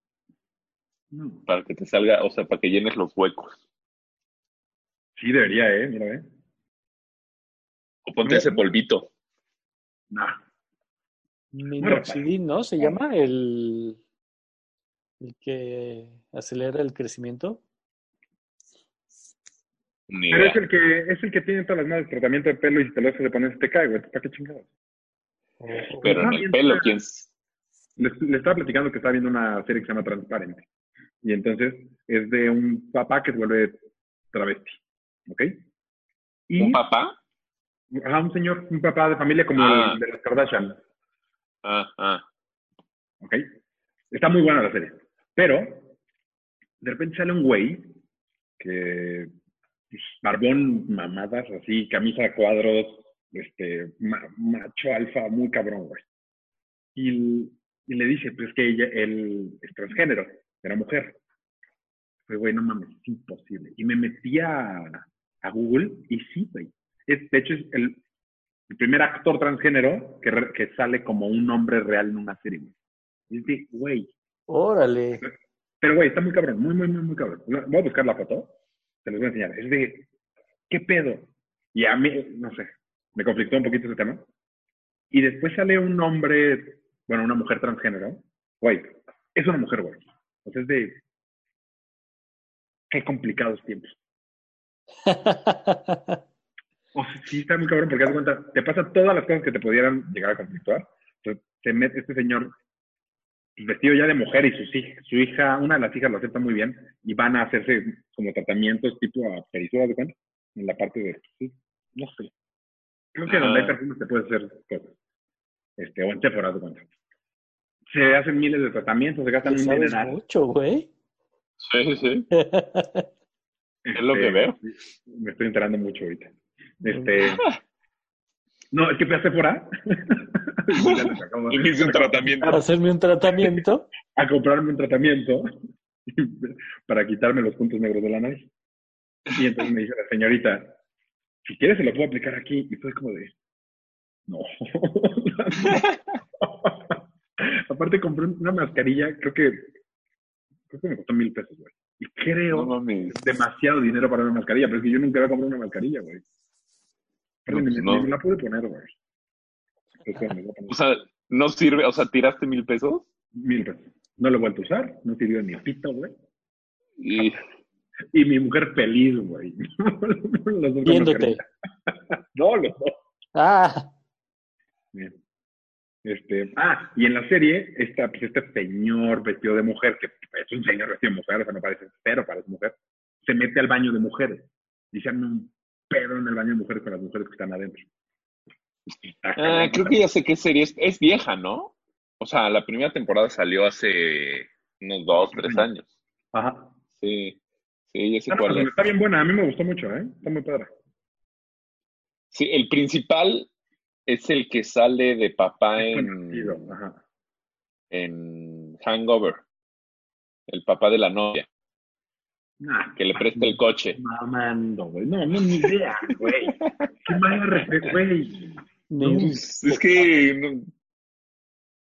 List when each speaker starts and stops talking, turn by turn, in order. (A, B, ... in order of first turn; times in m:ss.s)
0:01.1-0:01.4 A
0:01.5-0:03.6 B
0:05.2-0:06.2 A
0:08.0-0:09.1 B
0:08.2-0:08.6 A
0:10.1-0:10.4 A
0:11.5-0:14.0 C
0:11.8-0:12.3 A
0:15.2-0:17.6 C
0:20.1-0:20.6 B
0:20.3-0:24.7 A
0:25.6-0:26.2 C
0:26.0-0:27.0 A
0:26.0-0:27.3 B
0:28.0-0:30.6 A
0:31.2-0:33.8 A
0:34.3-0:35.5 A
0:36.5-0:36.8 A
0:36.6-0:37.2 B
0:37.9-0:40.8 A
0:39.6-0:40.0 B
0:41.6-0:42.2 B
0:43.2-0:43.4 A
0:44.1-0:45.9 A
0:46.8-0:48.0 A
0:48.6-0:49.3 A
0:49.9-0:56.0 A
0:56.9-1:01.2 A
1:02.3-1:08.0 A
1:08.7-1:12.7 A
1:13.3-1:14.1 A
1:14.5-1:15.2 C
1:15.2-1:18.5 A
1:19.0-1:20.1 A
1:20.7-1:24.2 A
1:25.1-1:31.0 A
1:32.9-1:33.9 A
1:35.0-1:36.2 C
1:36.9-1:42.5 A
1:43.6-1:52.3 A
1:53.1-1:55.0 A
1:53.3-1:53.8 B
1:55.8-1:56.8 A
1:57.9-2:00.2 A
1:59.4-2:00.9 C
2:01.6-2:02.3 B
2:02.3-2:03.1 C
2:03.8-2:07.5 A
2:03.9-2:04.6 B
2:06.8-2:07.1 C
2:07.2-2:07.6 B
2:08.7-2:12.6 A
2:10.8-2:12.6 B
2:12.5-2:13.9 C
2:14.1-2:15.5 A
2:16.1-2:18.5 A
2:19.3-2:20.8 A
2:21.4-2:23.3 A
2:24.3-2:25.9 A
2:25.6-2:25.9 B
2:26.4-2:29.7 A
2:30.7-2:36.2 A
2:32.5-2:33.2 B
2:37.4-2:38.9 A
2:37.5-2:38.1 B
2:40.0-2:40.7 A
2:40.7-2:43.0 B
2:43.3-2:46.1 A
2:47.0-2:47.4 B
2:48.1-2:53.0 A
2:50.8-2:51.4 C
2:53.3-2:53.9 C
2:56.0-3:07.8 A
3:09.1-3:10.0 A
3:09.4-3:15.8 B
3:15.2-3:15.7 A
3:16.3-3:16.7 A
3:17.0-3:17.4 B
3:17.9-3:18.7 B
3:18.3-3:20.7 A
3:22.3-3:23.5 B
3:24.1-3:26.7 B
3:25.8-3:27.0 A
3:27.9-3:29.4 B
3:30.5-3:31.4 B
3:32.6-3:39.3 A
3:33.0-3:34.0 B
3:35.6-3:37.2 B
3:38.9-3:39.8 C
3:39.2-3:40.7 B